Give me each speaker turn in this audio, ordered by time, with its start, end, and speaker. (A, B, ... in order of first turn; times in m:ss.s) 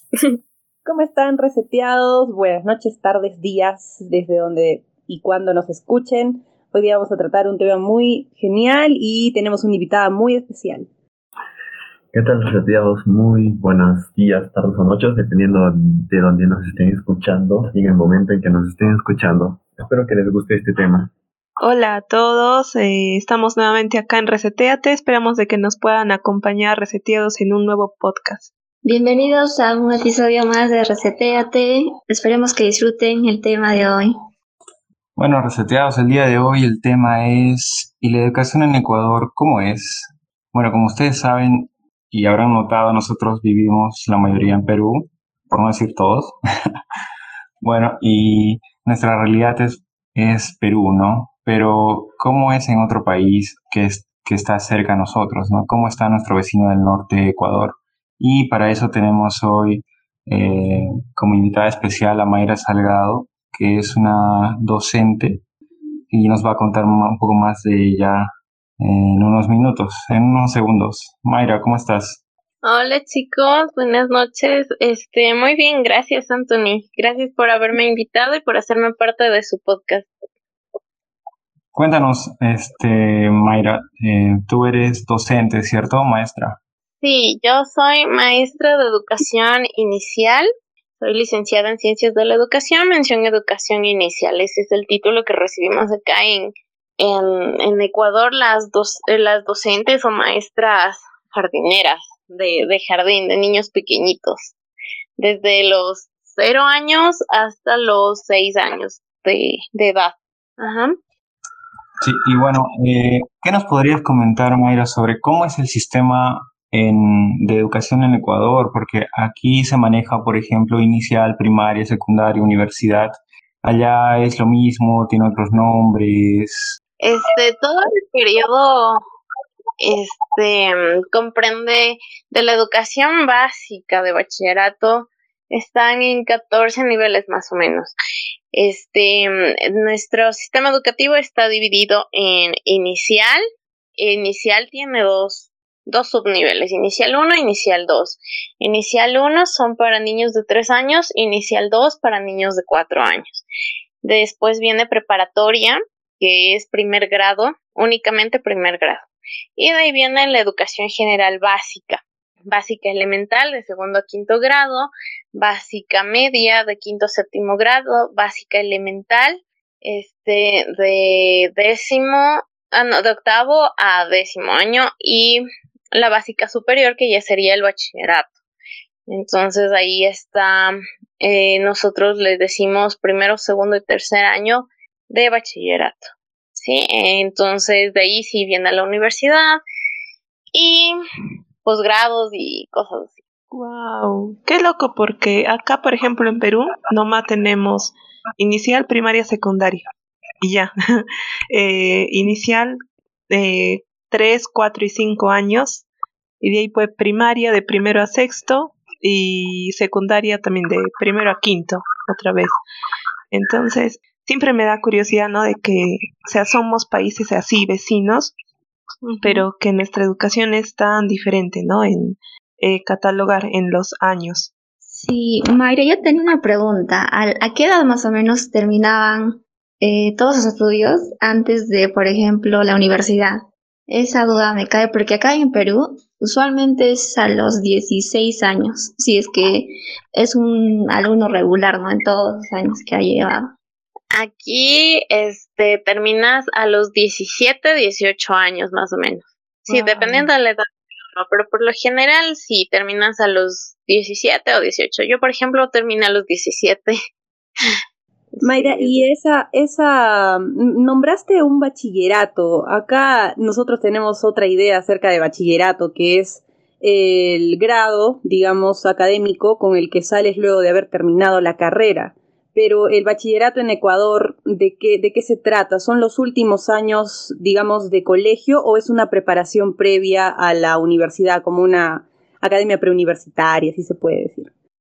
0:00.8-0:10.9 A
0:12.1-0:21.1 B
0:21.6-0:28.5 C
0:28.8-0:34.1 D
0:35.2-0:46.4 E
0:47.6-1:05.4 E
1:06.1-1:12.2 E
1:12.6-1:20.1 F
1:21.7-1:26.6 E
1:27.0-1:30.5 F
1:31.0-1:44.5 F
1:45.2-1:51.0 F
1:52.0-2:06.8 E
2:07.0-2:09.0 F
2:09.8-2:17.9 F
2:18.5-2:23.4 F
2:24.0-2:33.4 F
2:34.0-2:39.1 F
2:39.6-2:58.3 F
2:59.1-3:09.6 F
3:10.5-3:11.0 F
3:11.6-3:13.2 F
3:13.5-3:19.9 C
3:20.4-3:22.8 C
3:23.3-3:25.9 C
3:26.4-3:32.6 C
3:33.3-3:38.3 C
3:39.1-3:44.5 C
3:44.8-4:03.5 D
4:04.1-4:17.0 F
4:09.7-4:10.2 C
4:18.4-4:19.0 F
4:18.4-4:44.5 A